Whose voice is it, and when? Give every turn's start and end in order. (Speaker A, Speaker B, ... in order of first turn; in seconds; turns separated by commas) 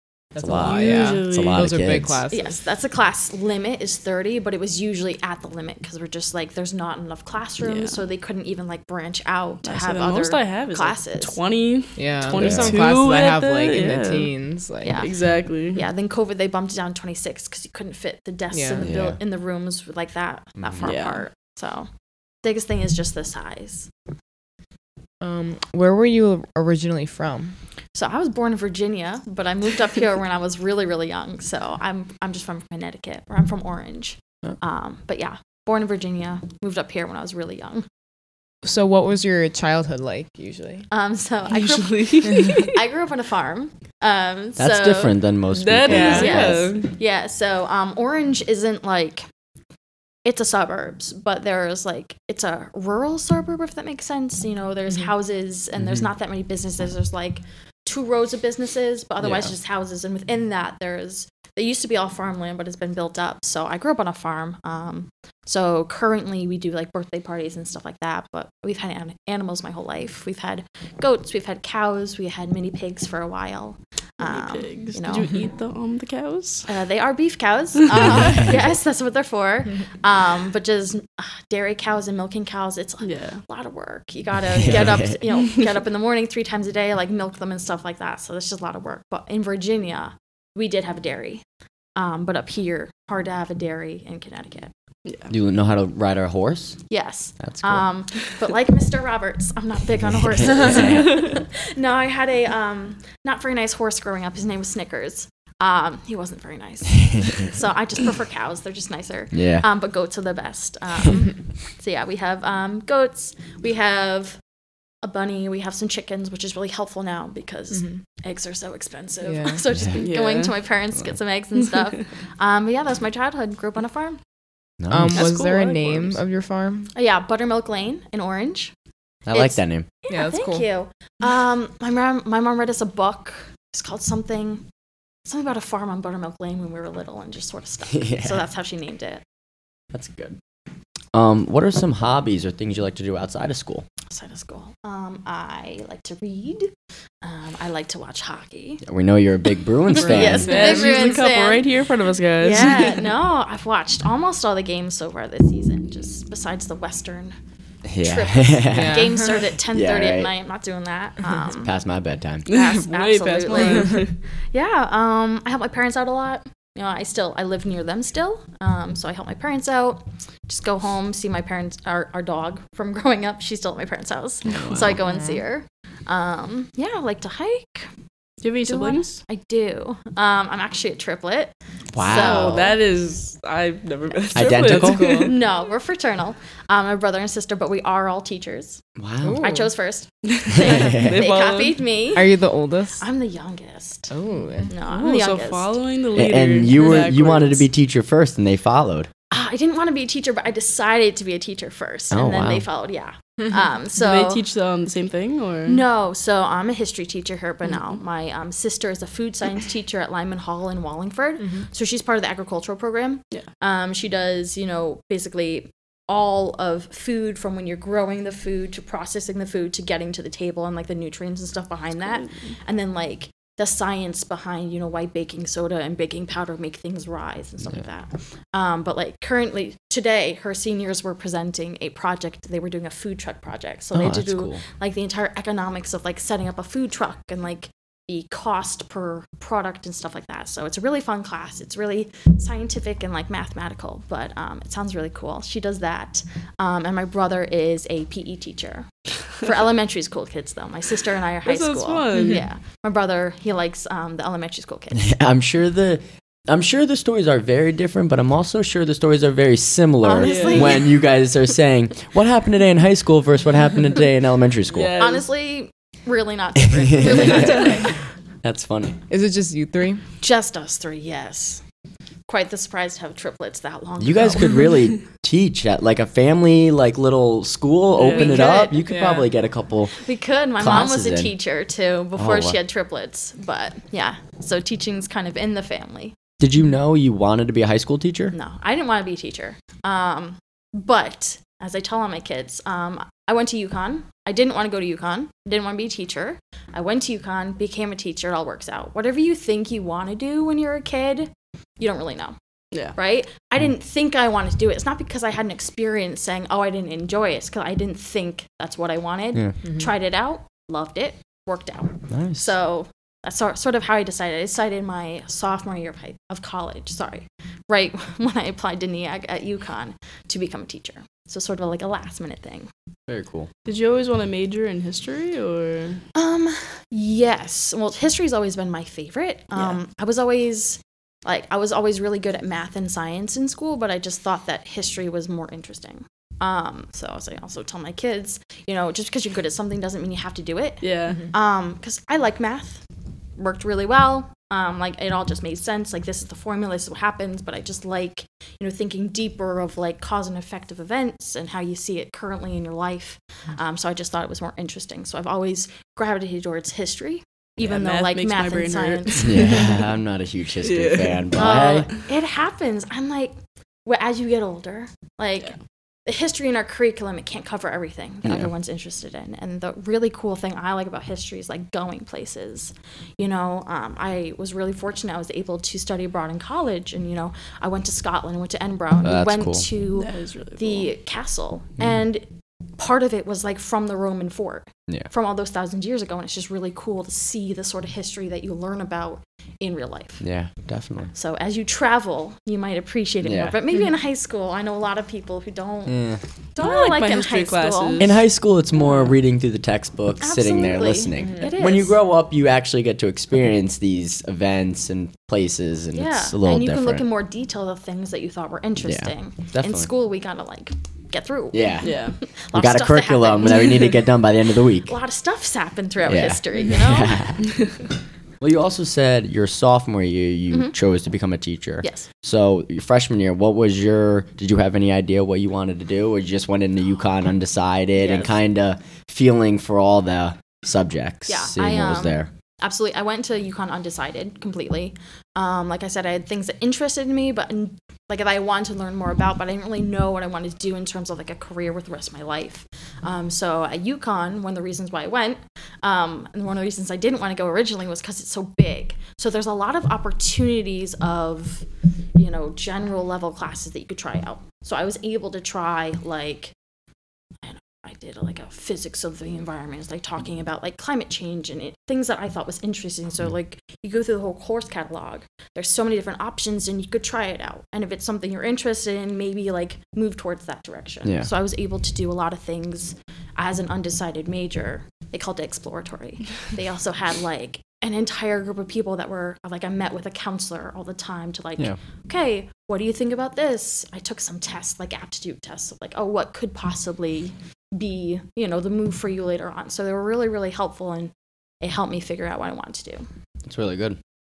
Speaker A: 0.3-2.5, Speaker B: 0.4-2.2, Speaker C: 0.6-1.6, Speaker D: 2.3-11.4, Speaker C: 7.6-8.0, Speaker C: 9.6-14.3, Speaker A: 11.9-15.0, Speaker B: 12.3-12.8, Speaker D: 14.8-15.1, Speaker C: 15.0-15.8, Speaker D: 15.7-21.9, Speaker A: 18.5-18.9, Speaker B: 18.8-19.2, Speaker C: 20.8-21.2, Speaker D: 22.4-23.9, Speaker A: 25.2-27.6, Speaker D: 27.9-37.9, Speaker A: 38.6-40.9, Speaker D: 40.9-45.1, Speaker C: 41.5-42.8, Speaker B: 44.6-46.6, Speaker C: 45.5-46.9, Speaker A: 45.9-46.7, Speaker D: 45.9-49.2, Speaker D: 50.2-75.3, Speaker B: 55.8-56.1, Speaker C: 74.2-76.7, Speaker D: 76.7-91.4, Speaker C: 77.9-78.4, Speaker C: 83.0-83.4, Speaker B: 84.5-85.2, Speaker D: 92.0-94.7, Speaker B: 95.3-96.8, Speaker D: 96.9-114.4, Speaker B: 97.4-97.8, Speaker B: 100.0-101.3, Speaker B: 109.3-109.6, Speaker D: 115.0-124.2, Speaker A: 117.7-118.0, Speaker A: 119.2-119.6, Speaker B: 119.7-120.0, Speaker C: 120.0-120.6, Speaker B: 124.8-125.2, Speaker A: 124.9-126.9, Speaker C: 125.1-126.2, Speaker D: 126.9-128.7, Speaker B: 129.2-129.9, Speaker D: 129.3-134.6, Speaker A: 130.1-130.7, Speaker D: 135.2-139.2, Speaker B: 137.9-138.4, Speaker B: 139.9-140.4, Speaker B: 141.1-143.8, Speaker D: 144.1-148.8, Speaker B: 148.8-150.6, Speaker A: 150.0-151.2, Speaker D: 150.0-151.7, Speaker C: 150.1-153.1, Speaker D: 152.4-157.3, Speaker B: 157.8-160.3, Speaker D: 158.0-161.7, Speaker A: 158.7-159.4, Speaker B: 161.5-162.5, Speaker C: 162.5-164.1, Speaker D: 162.5-177.9, Speaker B: 174.5-174.9, Speaker A: 175.0-175.4, Speaker C: 178.4-179.2, Speaker D: 178.6-182.8, Speaker B: 181.9-182.6, Speaker C: 182.0-185.3, Speaker B: 184.3-185.3, Speaker A: 184.6-185.3, Speaker D: 185.2-188.8, Speaker B: 189.0-189.4, Speaker A: 189.2-189.7, Speaker D: 189.4-192.3, Speaker C: 190.2-191.8, Speaker B: 190.5-191.2, Speaker A: 192.1-193.0, Speaker D: 193.0-194.1, Speaker A: 194.1-194.7, Speaker D: 194.7-195.7, Speaker C: 194.8-197.6, Speaker B: 196.1-199.1, Speaker D: 199.3-204.4, Speaker B: 202.1-202.6, Speaker C: 203.9-205.8, Speaker D: 205.6-255.1, Speaker C: 222.0-222.3, Speaker B: 233.9-234.6, Speaker C: 251.4-252.4, Speaker B: 254.9-264.9, Speaker D: 260.0-260.9, Speaker C: 260.2-260.8, Speaker C: 264.7-265.3, Speaker D: 265.0-267.9, Speaker B: 266.6-267.7, Speaker B: 268.4-269.0, Speaker A: 269.1-270.0, Speaker D: 270.2-271.6, Speaker D: 272.3-274.6, Speaker B: 274.0-279.9, Speaker C: 278.0-278.5, Speaker D: 278.1-278.8, Speaker D: 280.0-286.1, Speaker B: 280.6-281.3, Speaker B: 282.1-282.6, Speaker B: 286.4-288.3, Speaker D: 288.3-302.4, Speaker D: 302.9-322.7, Speaker A: 309.6-309.9, Speaker B: 312.1-312.5, Speaker B: 323.1-323.5, Speaker C: 323.6-326.0, Speaker D: 326.1-342.8, Speaker C: 340.8-341.2, Speaker D: 343.4-359.5, Speaker C: 357.6-359.8, Speaker B: 359.2-361.9, Speaker C: 360.6-361.3, Speaker D: 361.3-363.3, Speaker D: 363.9-365.5, Speaker D: 366.1-382.2, Speaker B: 379.0-379.7, Speaker C: 379.9-380.9, Speaker D: 382.8-390.2, Speaker B: 390.2-391.1, Speaker D: 391.1-396.0, Speaker B: 393.2-393.6, Speaker B: 395.9-396.2, Speaker D: 396.5-398.1, Speaker C: 396.6-398.2, Speaker B: 398.0-407.0, Speaker D: 400.2-402.0, Speaker A: 401.2-401.5, Speaker D: 405.9-414.0, Speaker B: 408.8-409.9, Speaker B: 411.5-411.9, Speaker C: 411.8-412.2, Speaker B: 412.5-414.9, Speaker D: 414.8-417.2, Speaker B: 416.0-417.5, Speaker B: 418.4-432.3, Speaker D: 421.8-422.1, Speaker D: 427.9-428.4, Speaker D: 431.3-451.6, Speaker D: 452.1-456.5, Speaker D: 457.4-493.0, Speaker B: 471.0-471.3, Speaker B: 493.4-494.0